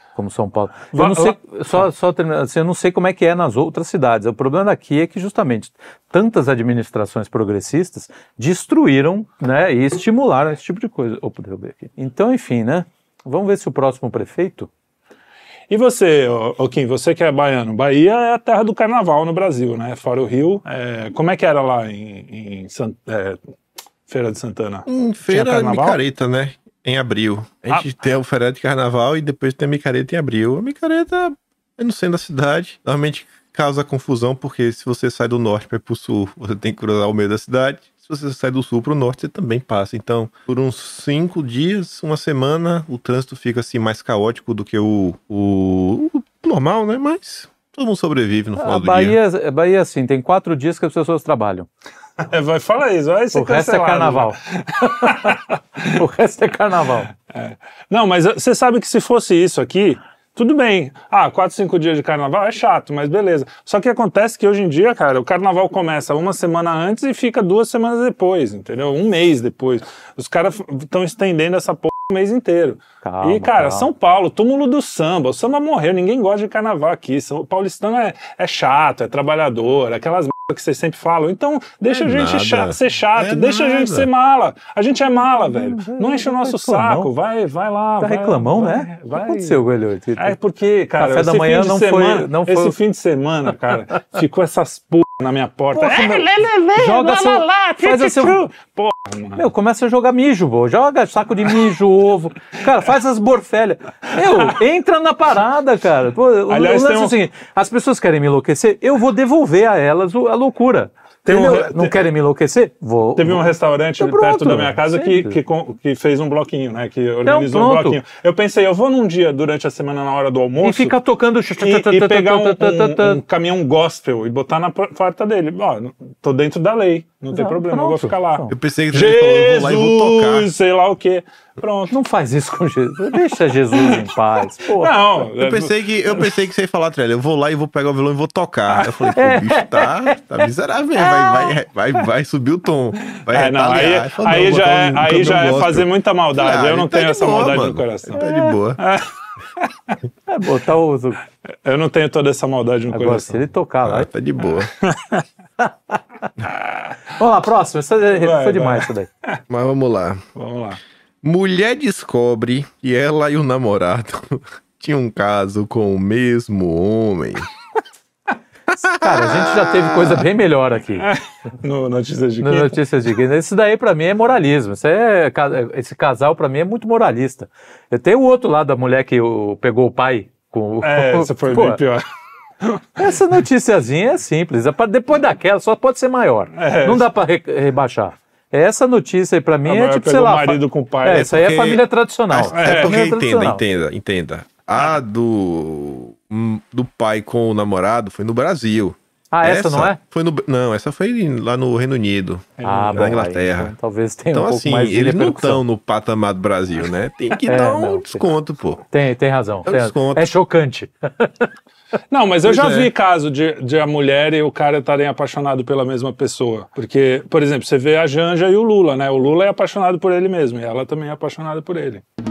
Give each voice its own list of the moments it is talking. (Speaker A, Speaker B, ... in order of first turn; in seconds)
Speaker A: 0.1-14.7, 48.6-51.7, 53.3-55.4, 55.9-57.1, 73.0-73.9, 85.4-87.1, 88.0-90.4, 91.0-92.8, 95.7-98.4, 99.4-113.4, 114.0-115.4, 117.2-118.0, 120.6-123.2, 127.3-128.6, 131.9-135.1, 139.2-140.2, 148.2-148.6, 150.3-151.2, 152.9-154.1, 155.6-156.0, 157.2-159.1, 168.9-171.1, 172.4-181.8, 183.0-193.6, 199.3-200.0, 202.6-205.6, 207.3-208.2, 208.9-211.5, 212.4-212.9
Speaker B: 0.9-1.9, 15.7-23.4, 24.1-26.0, 52.2-56.0, 57.3-89.6, 90.2-99.5, 106.5-107.2, 111.3-112.0, 113.2-121.0, 121.6-131.9, 133.7-134.1, 134.7-136.3, 138.7-139.1, 143.3-148.2, 148.8-149.9, 151.7-153.4, 154.8-155.2, 156.5-156.8, 158.1-159.4, 160.3-160.8, 171.0-172.8, 180.8-182.0, 182.6-183.1, 186.6-187.1, 189.7-191.3, 192.5-192.9, 202.6-203.2, 212.1-222.0
Speaker C: 24.9-49.2, 81.9-84.1, 128.5-130.5, 135.4-148.8, 153.8-154.7, 159.5-160.2, 161.2-167.5, 168.7-170.2, 191.1-203.7, 204.3-208.8, 209.7-210.3